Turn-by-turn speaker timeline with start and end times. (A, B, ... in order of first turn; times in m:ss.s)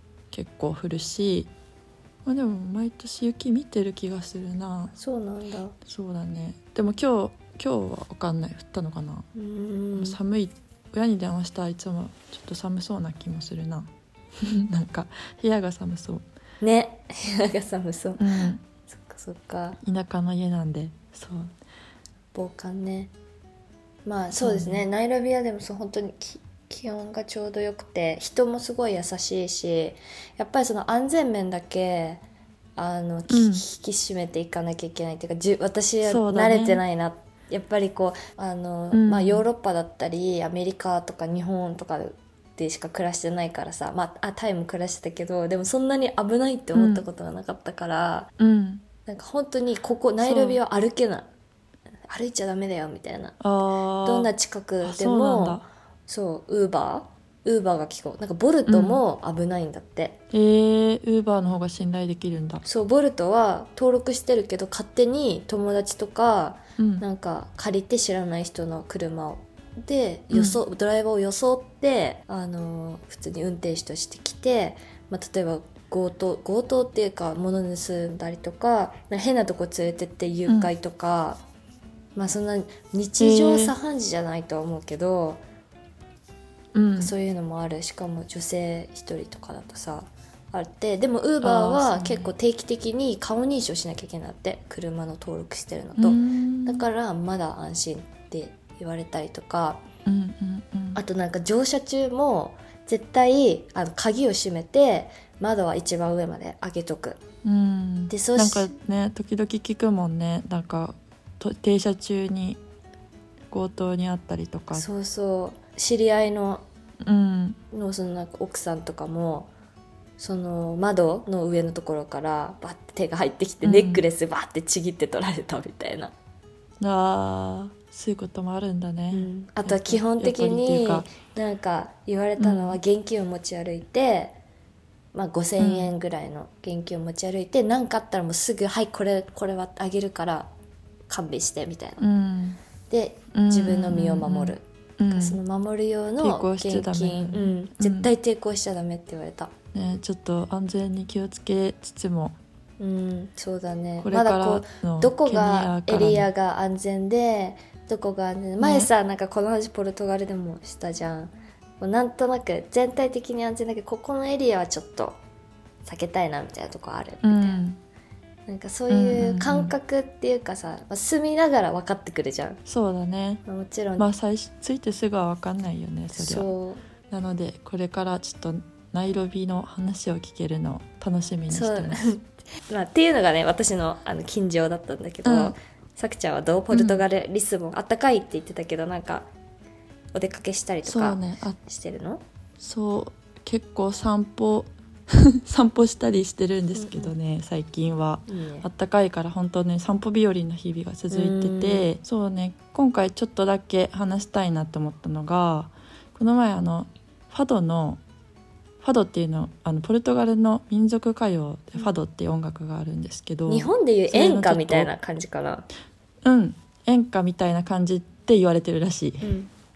0:00.3-0:01.5 A
0:02.2-0:04.9 A
0:04.9-0:05.8 B
0:05.8-0:09.3 A
0:09.3-0:10.2 B
0:10.0-0:16.2 A
0:16.6-0:19.8 B
0:18.2-0:18.6 A
0:19.8-0:21.5 A
0:22.3-0:23.1 B
0:24.0-0:32.2 B
0:24.4-0:24.8 A
0:32.8-0:48.3 B
0:33.3-0:33.6 A
0:36.0-0:36.8 A
0:38.9-0:39.4 A
0:46.7-0:47.0 A
0:48.4-0:48.8 A
0:49.0-0:51.3 B
0:50.2-0:50.6 A
0:52.1-0:53.4 B
0:53.4-0:54.3 A
0:54.0-1:00.2 B
0:54.8-0:55.6 A
0:58.7-0:59.0 A
1:00.3-1:02.6 A
1:02.6-1:21.4 B
1:06.8-1:07.0 A
1:10.3-1:10.6 A
1:22.2-1:25.4 B
1:23.2-1:23.7 A
1:26.7-1:27.1 A
1:27.0-1:39.8 B
1:31.4-1:32.3 A
1:36.0-1:36.9 A
1:40.0-1:41.0 A
1:40.9-1:47.2 B
1:47.4-1:52.6 A
1:48.1-1:48.7 B
1:53.5-1:54.8 A
1:54.7-1:56.6 B
1:57.0-1:57.6 A
1:57.7-1:59.5 B
2:00.2-2:06.1 B
2:03.6-2:04.0 A
2:06.8-2:11.1 A
2:09.1-2:14.4 B
2:12.4-2:12.8 A
2:15.1-2:20.5 B
2:15.6-2:15.9 A
2:21.1-2:22.0 B
2:22.0-2:22.6 A
2:22.9-2:29.5 B
2:23.3-2:25.4 A
2:26.2-2:28.1 A
2:29.7-2:32.4 A
2:32.8-2:45.2 B
2:34.0-2:36.3 A
2:38.6-2:38.9 A
2:45.8-2:47.6 B
2:47.2-2:47.8 A
2:48.5-2:52.6 B
2:48.9-2:49.7 A
2:52.6-2:53.4 A
2:53.4-2:54.0 B
2:54.0-2:56.5 A
2:56.1-2:56.8 B
2:57.1-3:02.1 A
3:01.5-3:09.3 B
3:05.2-3:05.5 A
3:06.7-3:07.0 A
3:10.1-3:12.2 B
3:10.8-3:11.6 A
3:12.6-3:28.0 A
3:16.7-3:17.1 B
3:18.3-3:18.7 B
3:21.1-3:21.8 B
3:28.8-3:34.9 A
3:33.5-3:35.6 B
3:36.2-3:39.3 A
3:39.2-3:39.5 B